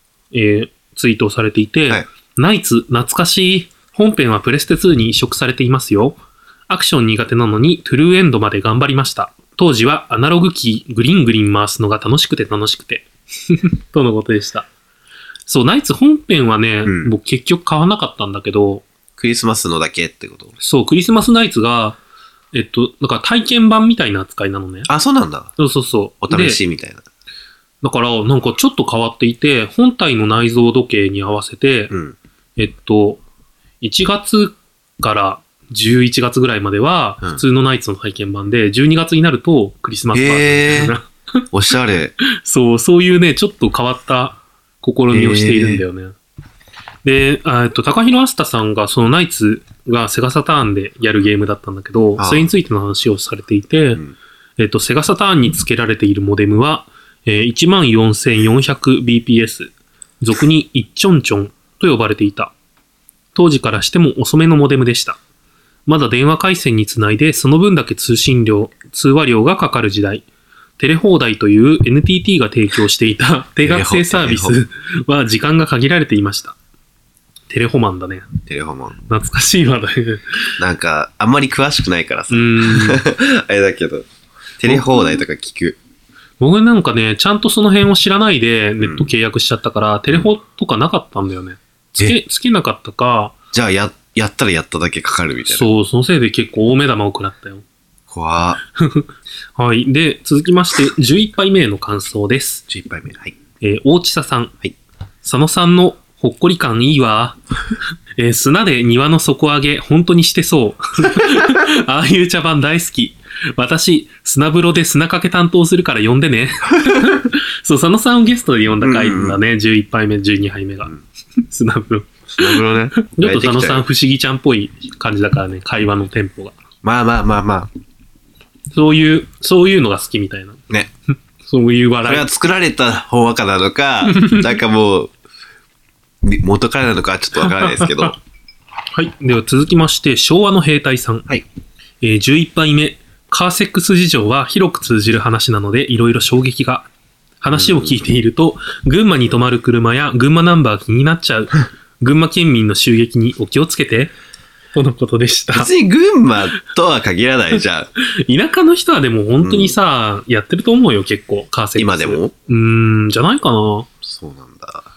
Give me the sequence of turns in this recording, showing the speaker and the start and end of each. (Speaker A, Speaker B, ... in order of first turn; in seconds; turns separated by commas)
Speaker A: 0.3-14.7, Speaker A: 15.5-18.9, Speaker B: 16.8-17.1, Speaker B: 19.2-20.5, Speaker A: 20.6-22.0, Speaker A: 22.5-24.9, Speaker B: 24.9-25.5, Speaker A: 25.6-26.6, Speaker B: 26.2-27.0, Speaker A: 27.8-31.9, Speaker B: 31.9-32.1, Speaker A: 32.6-33.2, Speaker A: 33.8-41.1, Speaker B: 40.1-40.9, Speaker B: 41.5-42.1, Speaker A: 42.2-46.1, Speaker B: 45.1-45.8, Speaker A: 47.0-54.0, Speaker B: 52.2-52.5, Speaker A: 54.6-62.5, Speaker A: 63.3-65.2, Speaker A: 65.9-70.2, Speaker A: 70.8-76.5, Speaker B: 73.6-74.6, Speaker A: 77.5-78.3, Speaker B: 78.5-79.0, Speaker A: 79.1-80.5, Speaker B: 80.6-84.0, Speaker A: 82.3-83.0, Speaker B: 84.6-85.8, Speaker A: 84.7-85.0, Speaker A: 86.4-93.3, Speaker B: 88.8-89.1, Speaker B: 93.5-95.7, Speaker A: 95.5-97.6, Speaker B: 98.1-98.6, Speaker A: 98.8-102.6, Speaker B: 102.7-103.4, Speaker A: 103.6-104.5, Speaker A: 105.2-107.4, Speaker A: 108.2-120.9, Speaker B: 118.8-119.4, Speaker A: 121.5-126.6, Speaker B: 122.4-123.8, Speaker B: 126.8-127.7, Speaker A: 128.7-130.6, Speaker A: 131.4-132.3, Speaker B: 132.0-135.1, Speaker A: 134.1-134.5, Speaker B: 136.2-138.2, Speaker A: 137.4-138.1, Speaker A: 138.9-141.3, Speaker A: 142.0-146.9, Speaker A: 147.4-154.1, Speaker B: 147.5-148.0, Speaker A: 154.7-155.7, Speaker B: 155.5-157.9, Speaker A: 158.2-163.9, Speaker B: 159.4-159.8, Speaker B: 161.8-162.3, Speaker B: 164.0-164.9